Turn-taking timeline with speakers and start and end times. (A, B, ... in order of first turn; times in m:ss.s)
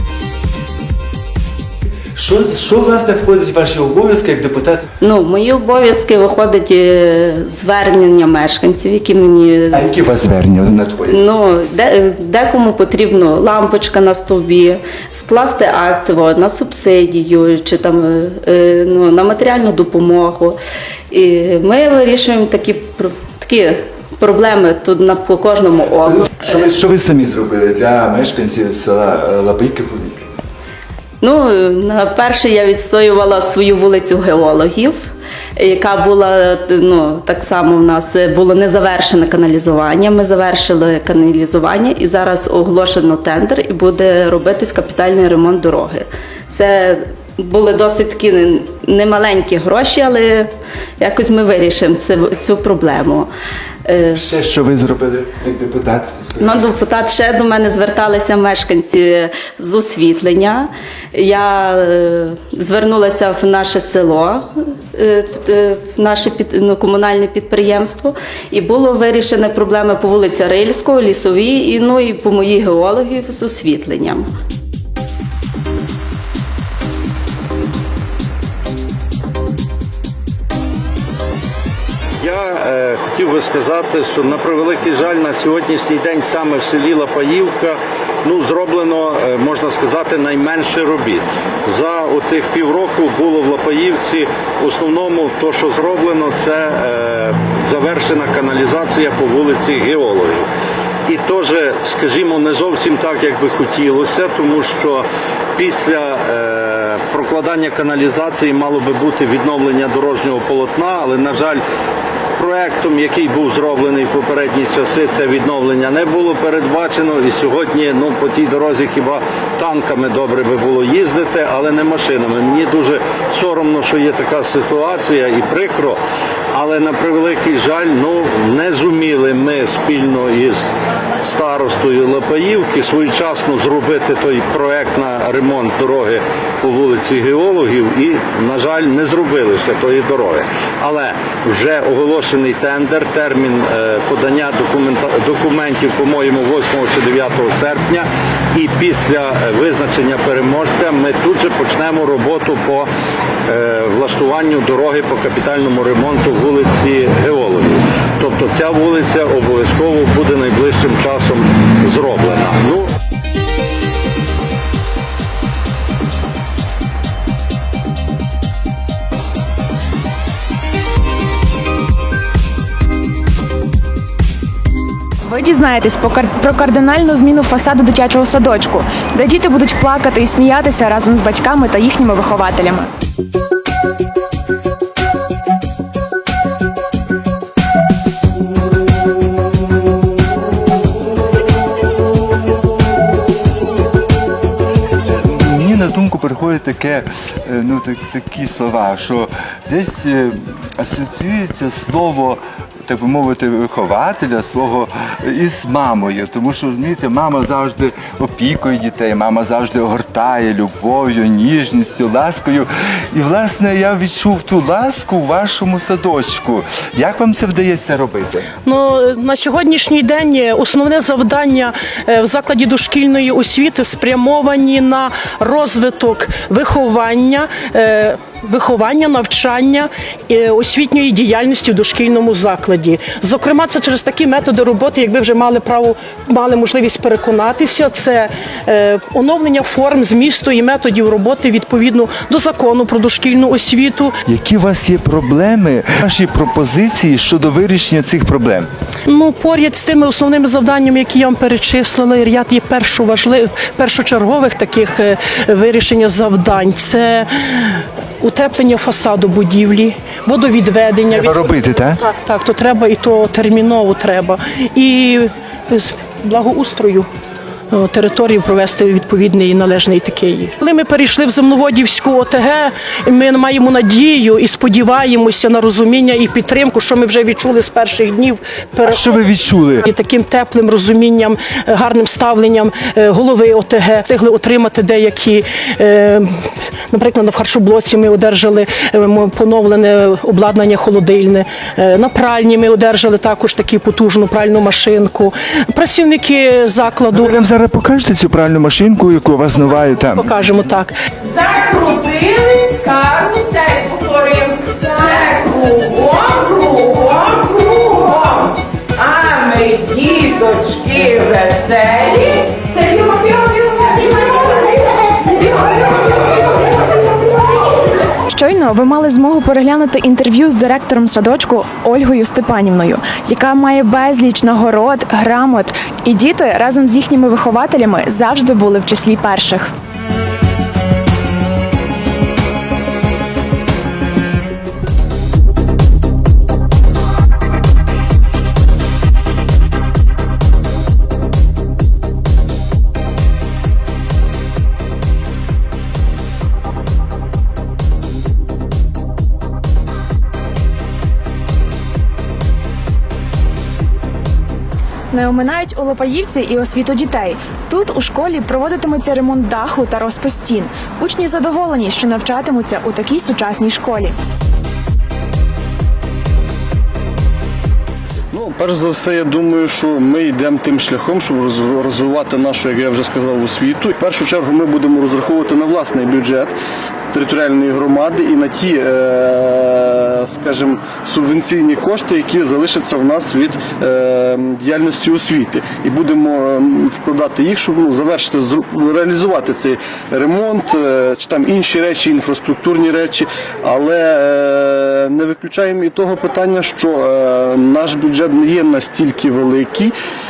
0:02.2-0:04.9 A
0:05.0-0:09.8 B
0:09.7-0:11.2 A
0:11.1-0:20.6 B
0:21.1-0:26.5 B
0:26.0-0:30.2 A
0:31.2-0:53.3 B
0:53.9-0:54.2 B
0:54.2-0:56.6 A
0:56.4-1:14.3 B
1:22.2-1:40.4 C
1:41.1-1:45.0 C
1:45.6-1:51.6 C
1:52.4-2:06.0 C
2:06.5-2:32.9 C
2:33.5-2:42.9 C
2:55.2-3:02.9 D
3:15.0-3:38.5 A
3:38.6-4:04.1 E
4:04.3-4:08.7 A
4:09.1-4:27.1 E
4:21.1-4:22.0 A
4:27.7-4:39.2 E
4:38.8-4:39.9 A
4:39.8-4:46.3 E
4:46.9-4:57.3 E
4:57.1-5:00.3 A
5:00.1-5:00.9 E
5:01.3-5:15.8 F
5:18.3-5:29.7 D
5:55.1-6:04.2 D
6:08.3-6:16.6 G
6:17.1-6:39.9 G